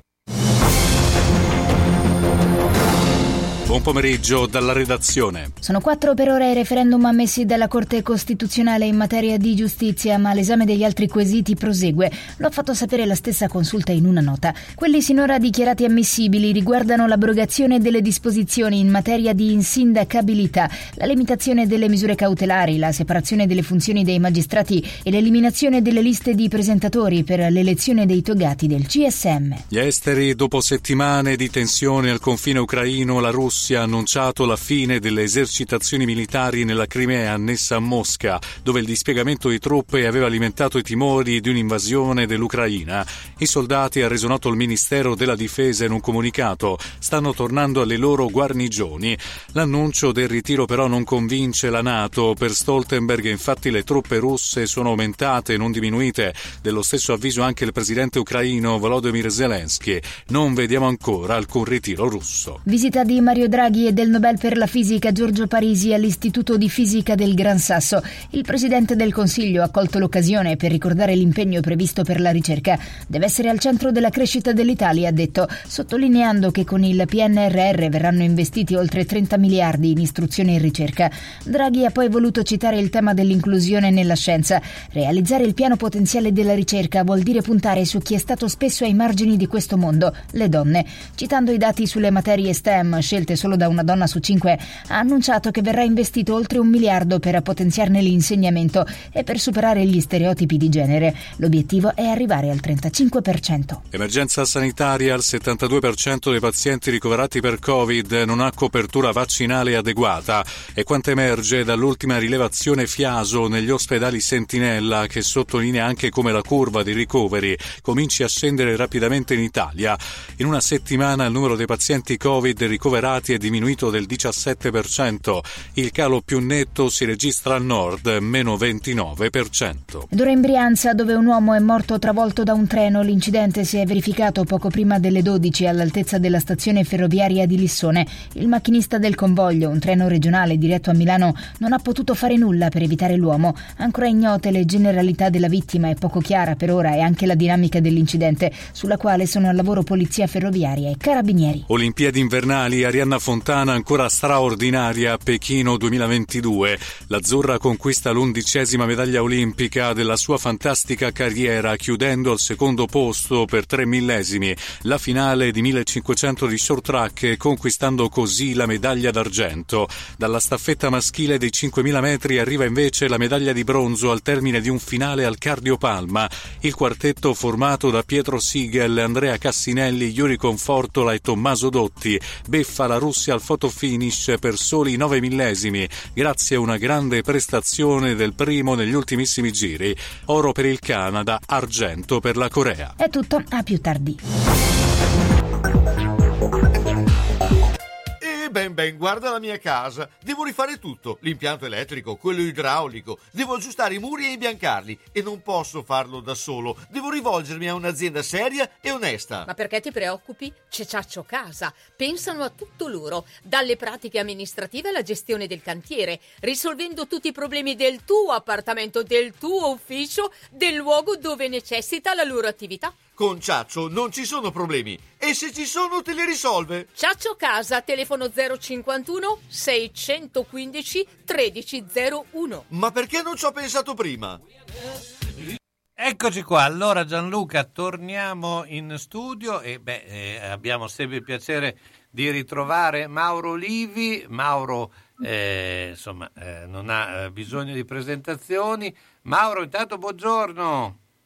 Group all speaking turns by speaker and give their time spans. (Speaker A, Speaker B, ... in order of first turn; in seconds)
Speaker A: 3.6-5.5, 29.7-62.6, 103.9-130.1, 151.7-192.9
Speaker B: 5.6-29.6, 62.6-103.8, 130.1-151.7, 193.0-194.2
Speaker C: 198.2-209.5, 223.2-226.9, 232.7-234.4
Speaker D: 209.5-222.9, 226.9-232.6
Speaker E: 236.0-251.0